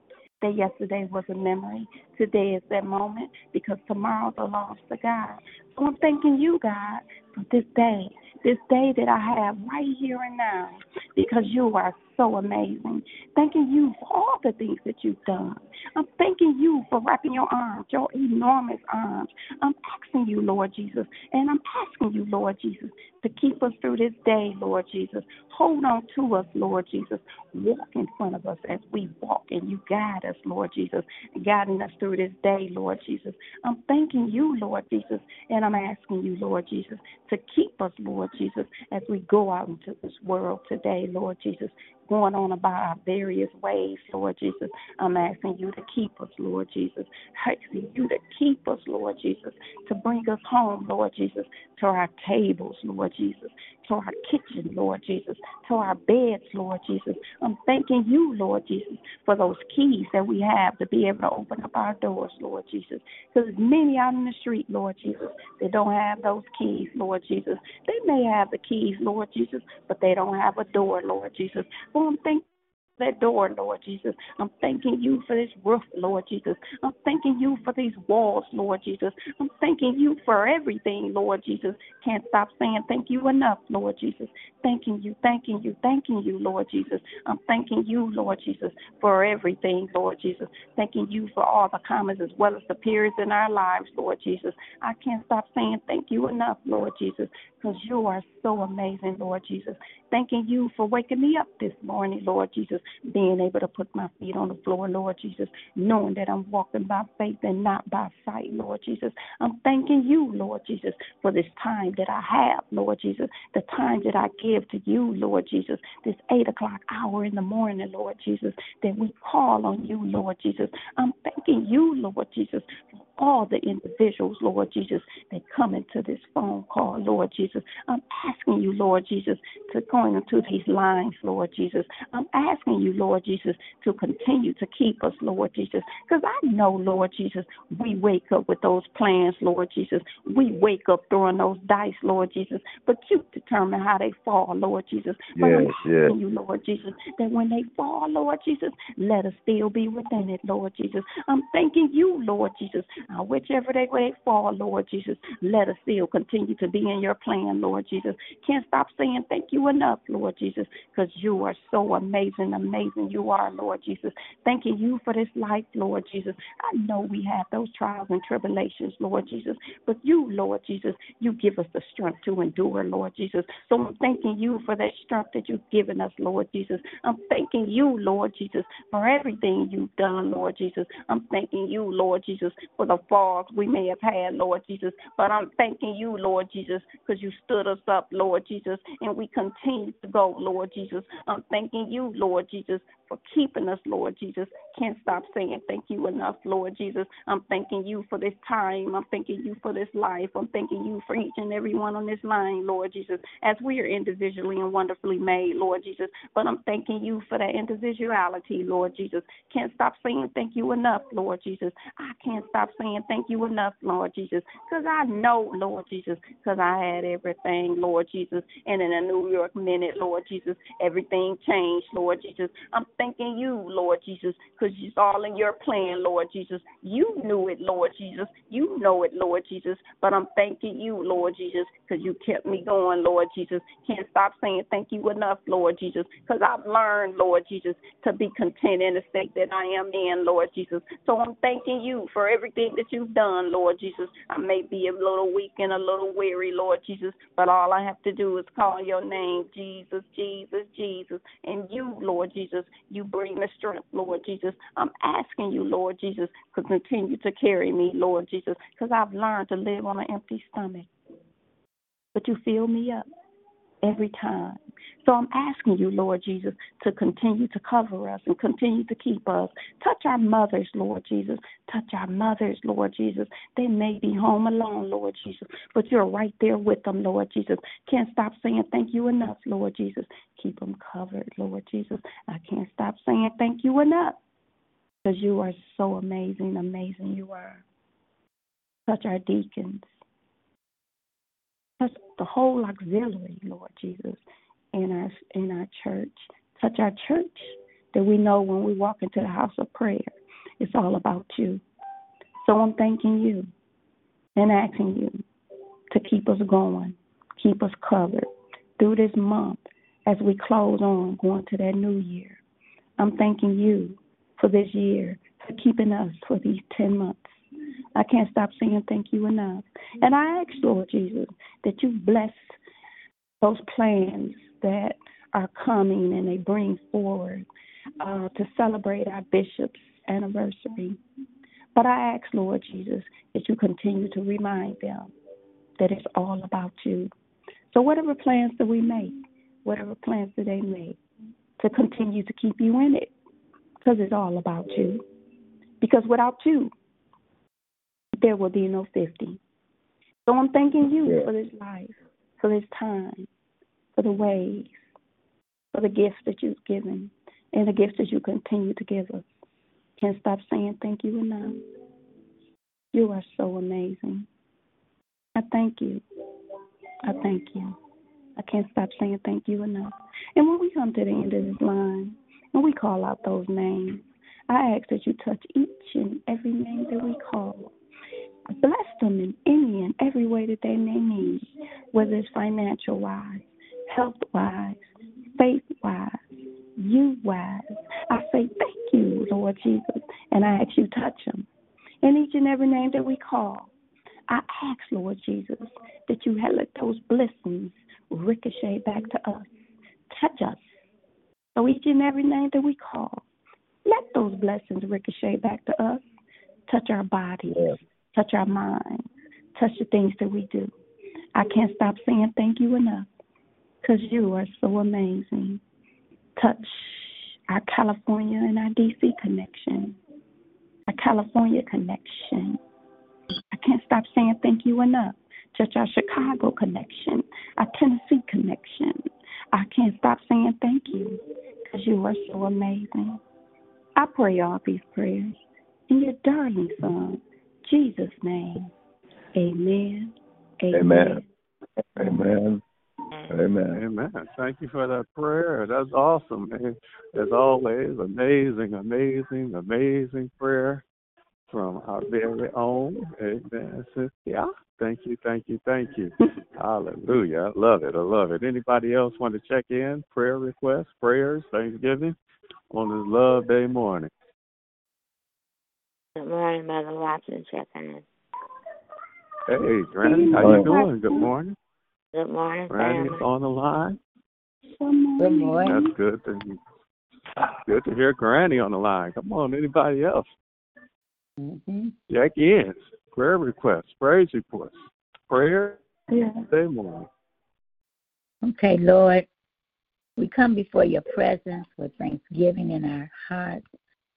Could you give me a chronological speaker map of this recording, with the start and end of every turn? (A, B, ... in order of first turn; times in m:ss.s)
0:00.4-1:12.4 A
1:13.0-4:20.9 A
2:25.4-2:26.1 B
4:22.1-4:23.1 A
4:23.8-4:44.2 A
4:45.0-4:47.6 A
4:48.9-4:49.9 A
4:51.8-4:54.2 A
4:54.7-5:01.6 A
5:02.4-5:03.5 A
5:04.4-5:05.2 A
5:05.9-5:08.3 A
5:08.8-5:12.4 A
5:13.0-5:22.6 A
5:23.4-5:27.5 A
5:28.0-5:31.0 A
5:31.7-5:35.1 A
5:35.8-5:37.1 A
5:37.7-5:41.0 A
5:41.6-5:43.1 A
5:43.8-5:45.0 A
5:45.8-5:46.7 A
5:48.2-5:49.4 A
5:50.3-5:53.3 A
5:51.0-5:51.3 B
5:53.9-5:54.8 A
5:55.7-5:59.3 A
6:00.0-6:01.6 A
6:02.9-6:04.3 A
6:05.4-6:06.0 A
6:07.0-6:07.8 A
6:08.4-6:17.7 A
6:18.5-6:24.8 A
6:25.4-6:26.2 A
6:26.8-6:31.5 A
6:32.0-6:33.7 A
6:34.3-6:39.5 A
6:40.1-6:40.8 A
6:41.5-6:43.2 A
6:43.8-6:46.0 A
6:46.7-6:50.7 A
6:47.5-6:47.8 B
6:51.3-6:53.1 A
6:53.8-6:55.6 A
6:56.4-7:00.0 A
7:00.9-7:02.6 A
7:03.5-7:09.0 A
7:09.5-7:13.2 A
7:14.0-7:15.4 A
7:15.9-7:18.7 A
7:19.3-7:21.2 A
7:20.7-7:21.2 B
7:22.0-7:22.6 B
7:23.3-7:23.8 B
7:23.7-7:30.8 C
7:31.5-7:42.1 C
7:42.7-7:44.1 C
7:46.2-7:48.0 D
7:49.5-7:51.6 C
7:50.0-7:51.3 A
7:50.4-7:50.7 B
7:52.1-7:53.2 D
7:52.7-7:54.0 C
7:54.7-7:55.9 A
7:55.2-7:55.8 E
7:55.7-7:56.6 C
7:57.6-8:00.3 C
8:01.4-8:01.9 E
8:02.1-8:04.8 C
8:05.3-8:05.8 C
8:06.1-8:06.4 A
8:06.5-8:07.1 C
8:08.4-8:09.2 E
8:10.2-8:13.6 E